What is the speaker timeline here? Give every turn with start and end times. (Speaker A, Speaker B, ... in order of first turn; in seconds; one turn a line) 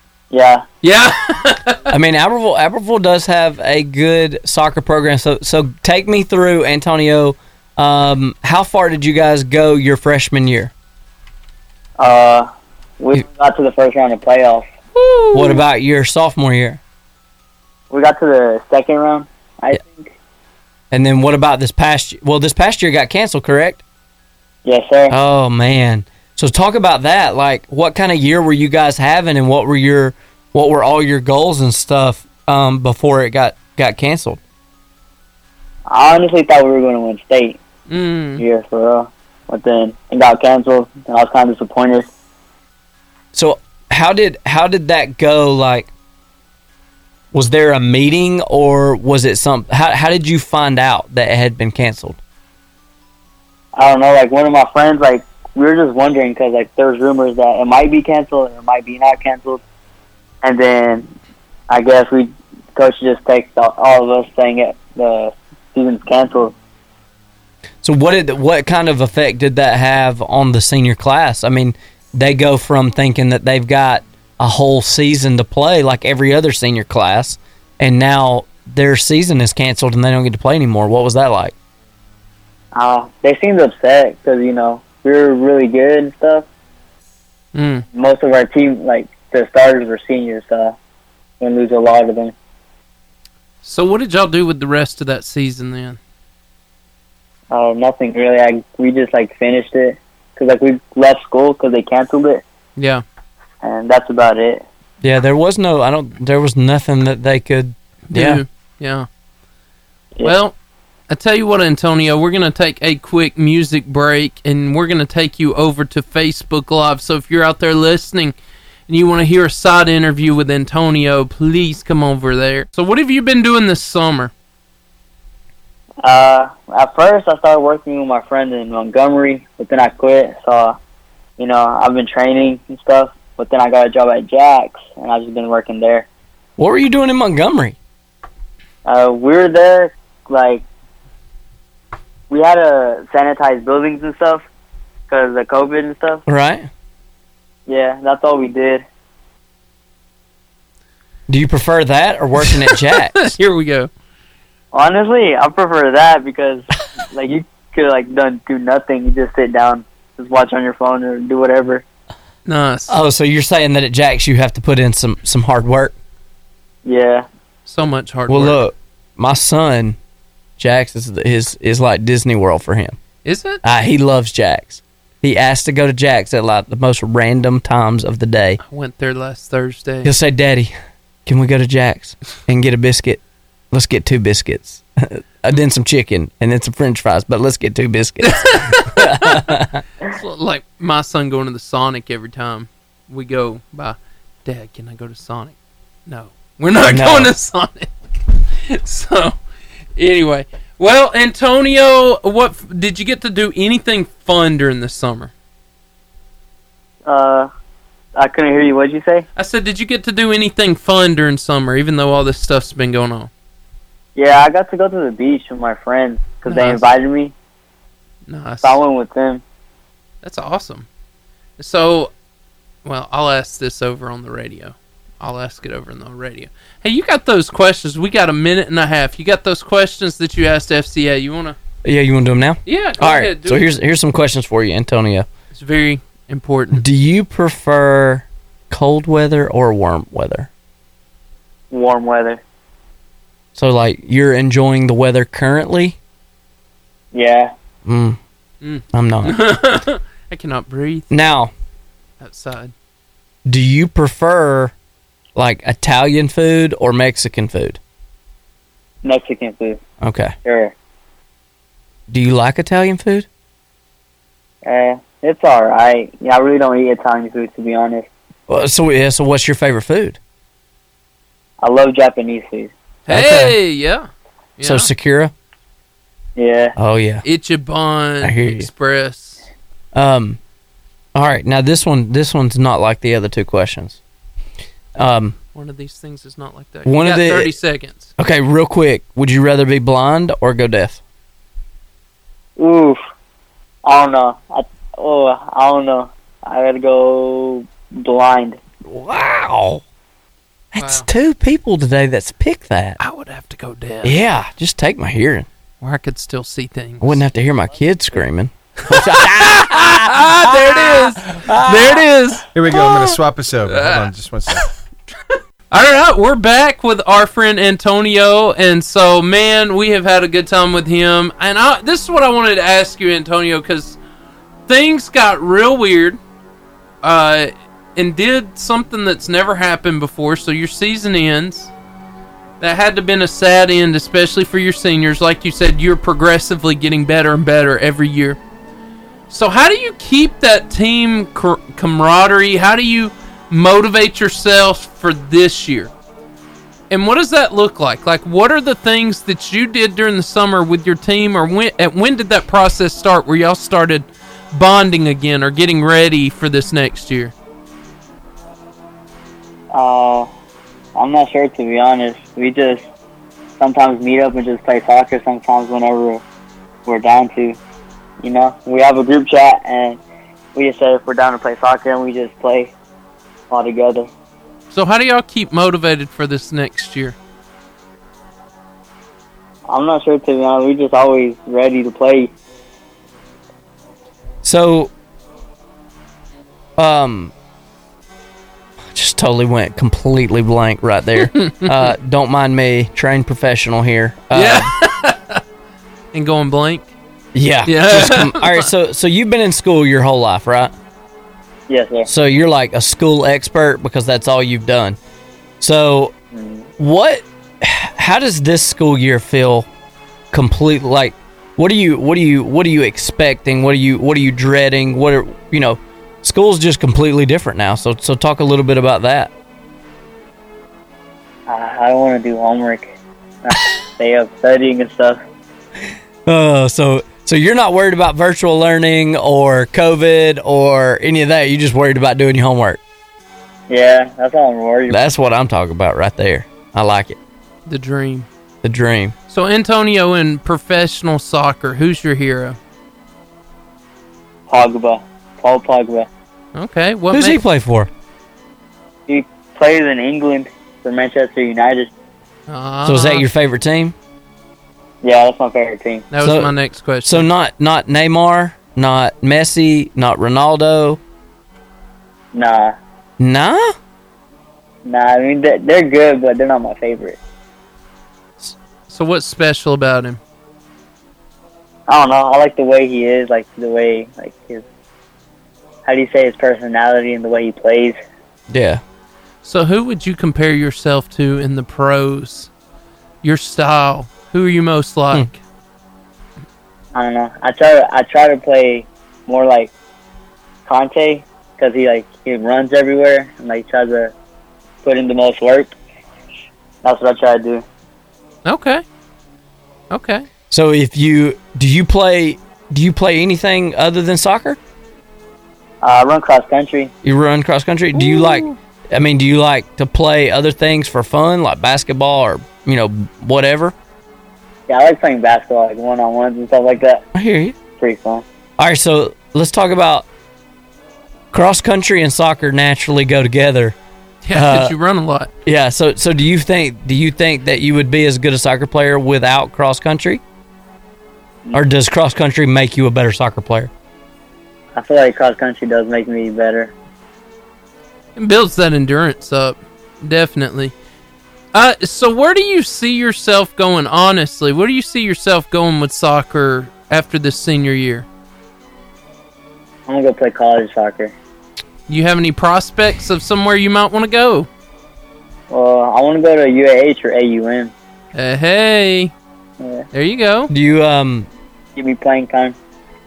Speaker A: 0.3-0.6
Speaker B: 0.8-1.8
Speaker C: 1.9-10.7
Speaker A: 12.0-12.5
Speaker A: 13.0-14.7
Speaker B: 14.9-15.6
Speaker C: 15.3-16.8
Speaker A: 17.9-20.1
Speaker C: 20.9-23.8
Speaker A: 24.6-25.1
Speaker C: 25.1-34.4
Speaker A: 35.9-37.6
Speaker B: 37.9-38.4
Speaker A: 38.4-42.1
Speaker C: 43.3-45.9
Speaker C: 47.3-52.2
Speaker A: 53.7-59.6
Speaker A: 60.4-61.1
Speaker A: 61.7-66.5
Speaker C: 67.8-81.5
Speaker A: 82.7-86.5
Speaker B: 87.5-87.8
Speaker A: 87.9-90.8
Speaker A: 91.4-92.3
Speaker B: 93.6-96.0
Speaker A: 97.5-102.4
Speaker B: 102.8-103.0
Speaker A: 103.6-104.6
Speaker C: 105.0-108.4
Speaker B: 108.1-109.1
Speaker B: 110.2-110.5
Speaker B: 111.1-118.3
Speaker B: 118.9-124.3
Speaker A: 126.0-130.8
Speaker A: 131.4-136.1
Speaker C: 136.6-137.8
Speaker A: 138.8-140.6
Speaker A: 142.3-144.4
Speaker A: 145.1-146.2
Speaker C: 146.3-146.7
Speaker A: 147.7-148.8
Speaker C: 151.3-153.3
Speaker B: 152.4-153.9
Speaker A: 154.7-161.8
Speaker B: 162.4-163.0
Speaker C: 162.9-165.9
Speaker A: 166.8-167.2
Speaker B: 167.7-168.6
Speaker C: 168.3-170.0
Speaker C: 170.6-173.0
Speaker B: 173.2-173.6
Speaker C: 173.6-178.6
Speaker B: 178.6-180.1
Speaker C: 180.0-180.7
Speaker C: 181.2-183.2
Speaker C: 183.7-189.8
Speaker B: 188.2-189.5
Speaker B: 190.0-195.5
Speaker B: 196.1-197.9
Speaker C: 196.8-197.3
Speaker B: 198.7-199.3
Speaker B: 200.0-205.3
Speaker A: 207.1-207.5
Speaker A: 208.2-209.2
Speaker B: 209.3-213.3
Speaker A: 214.2-217.3
Speaker B: 216.4-216.8
Speaker B: 218.3-218.8
Speaker A: 218.6-219.4
Speaker B: 220.2-220.9
Speaker B: 221.6-222.1
Speaker B: 222.8-231.6
Speaker C: 231.8-235.3
Speaker B: 232.7-233.7
Speaker B: 235.5-236.8
Speaker C: 236.7-240.5
Speaker A: 241.7-242.4
Speaker C: 243.5-245.9
Speaker A: 247.1-247.5
Speaker C: 247.8-248.2
Speaker B: 248.6-251.1
Speaker C: 248.9-249.4
Speaker C: 251.1-251.5
Speaker B: 252.2-252.7
Speaker C: 253.4-254.7
Speaker C: 255.3-257.8
Speaker A: 259.0-259.8
Speaker C: 260.0-260.3
Speaker A: 260.4-260.7
Speaker C: 262.1-263.3
Speaker A: 264.6-268.1
Speaker C: 268.5-270.2
Speaker A: 271.6-272.7
Speaker B: 273.1-274.1
Speaker C: 273.1-273.6
Speaker B: 274.6-274.9
Speaker C: 274.6-275.3
Speaker A: 276.4-276.7
Speaker C: 276.8-277.2
Speaker B: 277.2-279.4
Speaker C: 278.2-278.7
Speaker C: 279.9-280.4
Speaker C: 281.1-284.0
Speaker C: 285.0-285.4
Speaker B: 285.5-288.1
Speaker C: 286.8-287.5
Speaker C: 288.2-291.0
Speaker A: 292.6-293.0
Speaker A: 293.8-298.6
Speaker C: 298.8-299.8
Speaker C: 300.7-303.0
Speaker B: 300.8-301.1
Speaker B: 303.0-304.1
Speaker C: 304.0-305.5
Speaker B: 305.8-307.2
Speaker C: 307.0-312.0
Speaker B: 308.9-312.9
Speaker D: 312.5-314.7
Speaker B: 313.7-314.6
Speaker B: 315.7-324.0
Speaker B: 324.7-326.2
Speaker B: 327.0-331.7
Speaker B: 332.6-338.4
Speaker B: 339.3-345.9
Speaker B: 346.9-357.3
Speaker A: 359.7-360.3
Speaker A: 360.9-362.8
Speaker A: 363.6-366.2
Speaker A: 366.9-367.6
Speaker A: 368.2-370.0
Speaker A: 370.5-372.7
Speaker A: 373.5-374.1
Speaker B: 374.7-377.1
Speaker A: 379.7-382.3
Speaker C: 384.4-384.9
Speaker C: 386.8-387.3
Speaker C: 388.9-394.7
Speaker B: 391.2-391.9
Speaker B: 394.3-395.4
Speaker B: 396.1-396.9
Speaker C: 397.3-400.7
Speaker B: 397.6-398.7
Speaker A: 401.7-402.1
Speaker C: 402.1-405.0
Speaker C: 405.6-406.1
Speaker A: 406.3-406.6
Speaker C: 406.8-409.7
Speaker C: 410.3-419.3
Speaker A: 421.5-422.9
Speaker A: 423.4-425.2
Speaker C: 426.2-432.8
Speaker A: 433.7-435.0
Speaker C: 434.9-437.2
Speaker B: 437.6-438.3
Speaker C: 438.6-439.1
Speaker B: 439.3-442.6
Speaker A: 444.5-446.1
Speaker B: 446.5-447.4
Speaker C: 447.1-447.9
Speaker A: 449.1-451.9
Speaker B: 452.5-453.2
Speaker C: 452.8-453.9
Speaker A: 455.0-456.1
Speaker B: 456.1-457.3
Speaker C: 456.2-461.0
Speaker A: 462.3-462.8
Speaker C: 463.2-463.8
Speaker A: 464.8-467.2
Speaker B: 468.9-470.2
Speaker A: 471.9-474.6
Speaker A: 475.8-478.0
Speaker C: 478.5-478.8
Speaker B: 479.4-482.5
Speaker B: 483.2-485.4
Speaker A: 486.9-489.7
Speaker A: 490.7-494.1
Speaker A: 494.8-495.7
Speaker A: 496.8-497.6
Speaker B: 498.4-498.8
Speaker B: 499.9-500.3
Speaker C: 500.5-504.6
Speaker A: 505.8-506.9
Speaker C: 507.0-513.7
Speaker B: 507.9-508.5
Speaker A: 514.7-517.0
Speaker C: 517.1-517.6
Speaker A: 517.8-518.2
Speaker C: 518.6-520.0
Speaker C: 521.3-523.8
Speaker B: 524.2-525.3
Speaker C: 524.3-524.7
Speaker C: 525.4-530.2
Speaker C: 531.5-533.7
Speaker A: 534.7-536.7
Speaker B: 538.1-540.7
Speaker B: 541.5-548.1
Speaker A: 549.9-551.1
Speaker B: 551.9-554.5
Speaker A: 555.5-557.7
Speaker B: 558.1-559.1
Speaker A: 559.6-559.9
Speaker B: 559.9-560.5
Speaker C: 560.5-561.3
Speaker A: 561.8-562.5